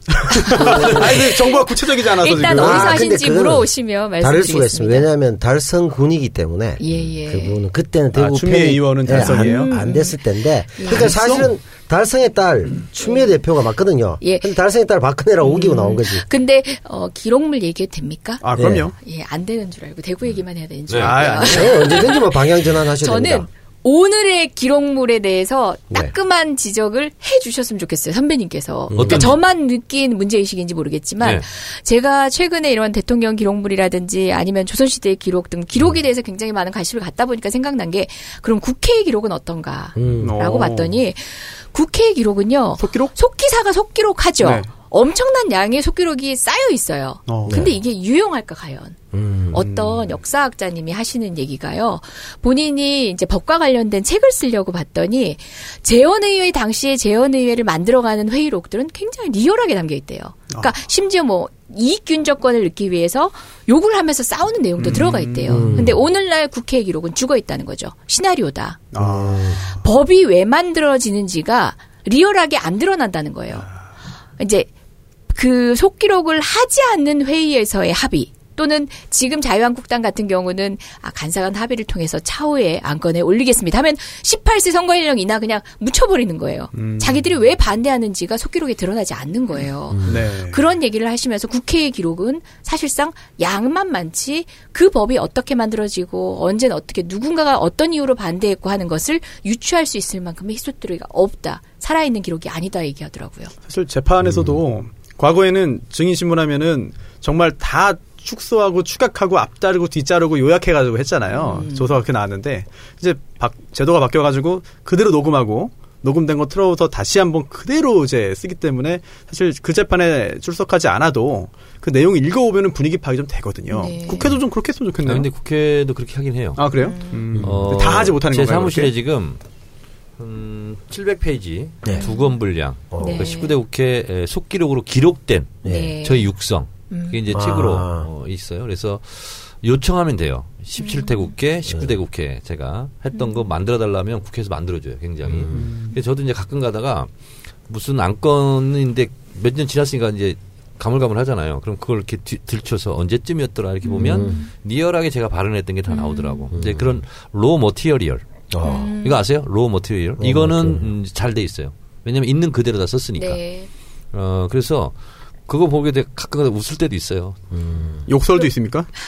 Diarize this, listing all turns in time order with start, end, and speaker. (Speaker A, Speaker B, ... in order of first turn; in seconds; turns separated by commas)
Speaker A: 0.1-3.0, Speaker B: 0.4-5.1, Speaker C: 0.6-1.2, Speaker C: 2.4-16.2, Speaker B: 6.8-7.6, Speaker A: 8.1-9.7, Speaker B: 9.1-10.2, Speaker B: 10.7-11.2, Speaker A: 10.8-11.5, Speaker B: 13.0-13.3, Speaker B: 14.2-14.5, Speaker B: 15.4-22.4, Speaker A: 18.4-18.9, Speaker C: 18.6-18.9, Speaker D: 20.9-21.2, Speaker A: 21.0-21.9, Speaker C: 21.4-23.5, Speaker B: 23.0-49.0, Speaker C: 28.9-29.3, Speaker D: 28.9-29.3, Speaker C: 40.0-40.4, Speaker A: 40.2-41.0, Speaker A: 42.8-43.1, Speaker A: 44.4-44.7, Speaker A: 47.3-47.6, Speaker C: 49.1-49.6, Speaker B: 49.5-68.9, Speaker A: 49.5-50.1, Speaker A: 64.8-65.9, Speaker C: 65.5-66.0, Speaker A: 68.9-69.8, Speaker C: 68.9-69.6, Speaker B: 69.6-73.7, Speaker B: 74.4-74.7, Speaker B: 75.3-103.5, Speaker A: 86.7-87.2, Speaker C: 89.9-90.2, Speaker A: 90.0-90.7, Speaker A: 103.7-125.3, Speaker B: 111.3-112.0, Speaker B: 123.7-124.3, Speaker D: 125.0-126.6, Speaker A: 126.6-128.9, Speaker B: 126.7-127.2, Speaker D: 127.4-129.4, Speaker D: 130.2-147.1, Speaker B: 131.9-132.3, Speaker C: 132.9-133.3, Speaker B: 133.0-133.6, Speaker C: 135.6-136.0, Speaker B: 135.7-136.3, Speaker B: 136.9-137.2, Speaker C: 137.3-138.1, Speaker B: 140.8-141.3, Speaker B: 143.1-143.4, Speaker C: 145.3-145.7, Speaker A: 145.6-145.9, Speaker D: 147.7-158.2, Speaker B: 153.8-154.5, Speaker C: 153.9-154.4, Speaker B: 155.9-156.5, Speaker C: 156.5-157.0, Speaker C: 158.5-158.9, Speaker B: 158.6-159.2, Speaker D: 158.9-163.4, Speaker C: 160.2-160.9, Speaker B: 163.2-163.7, Speaker D: 164.1-164.9, Speaker D: 165.5-167.4, Speaker C: 167.5-168.1, Speaker A: 168.1-168.9